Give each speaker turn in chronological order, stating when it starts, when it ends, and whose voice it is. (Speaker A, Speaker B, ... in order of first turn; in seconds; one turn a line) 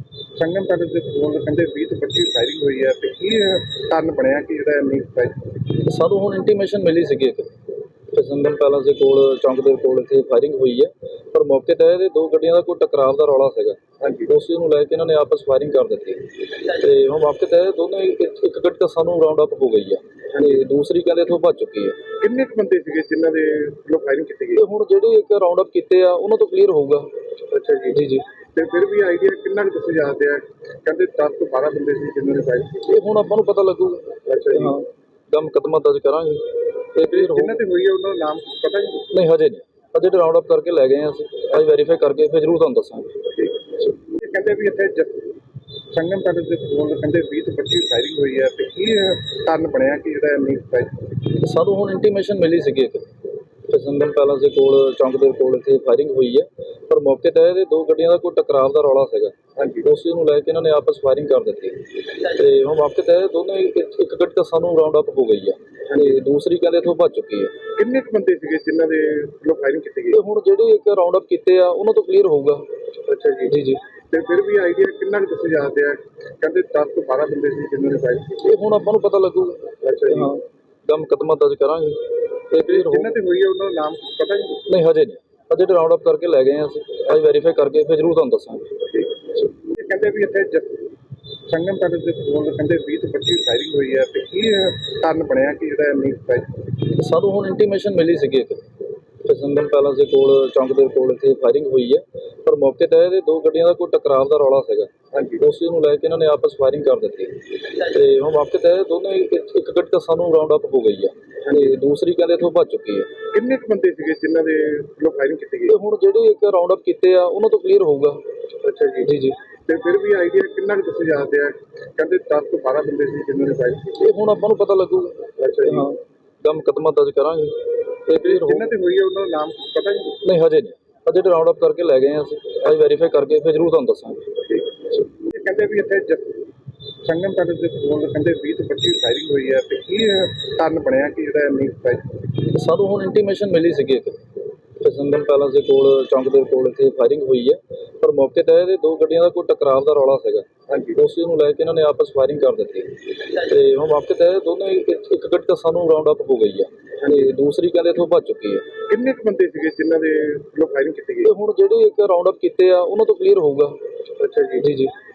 Speaker A: 0.3-5.7
Speaker B: 5.7-7.5
Speaker B: 8.1-13.8
Speaker A: 14.0-14.3
Speaker B: 14.3-22.0
Speaker A: 22.2-24.6
Speaker B: 24.6-27.1
Speaker A: 27.5-28.0
Speaker B: 27.9-28.2
Speaker A: 28.6-32.9
Speaker B: 32.8-37.6
Speaker A: 34.3-34.8
Speaker A: 37.1-39.1
Speaker B: 39.1-43.3
Speaker A: 44.0-45.3
Speaker A: 45.9-51.2
Speaker B: 51.3-53.1
Speaker B: 53.7-67.6
Speaker A: 59.6-59.9
Speaker A: 67.7-70.2
Speaker B: 70.1-72.6
Speaker A: 73.1-73.6
Speaker B: 73.5-73.8
Speaker A: 74.1-78.5
Speaker B: 78.4-83.1
Speaker A: 79.8-80.3
Speaker A: 82.6-84.6
Speaker B: 84.7-88.7
Speaker A: 89.5-90.9
Speaker A: 91.5-96.7
Speaker B: 96.8-98.6
Speaker B: 99.2-104.9
Speaker A: 105.1-105.4
Speaker B: 105.4-113.1
Speaker A: 113.3-115.8
Speaker B: 115.7-118.2
Speaker A: 118.6-119.1
Speaker B: 119.0-119.4
Speaker A: 119.7-124.0
Speaker B: 124.0-128.7
Speaker A: 125.4-125.9
Speaker A: 128.2-130.2
Speaker B: 130.2-134.2
Speaker A: 135.0-136.4
Speaker A: 137.0-142.3
Speaker B: 142.4-144.2
Speaker B: 144.8-158.7
Speaker A: 150.7-151.0
Speaker A: 158.9-161.3
Speaker B: 161.2-163.8
Speaker A: 164.2-164.7
Speaker B: 164.6-164.9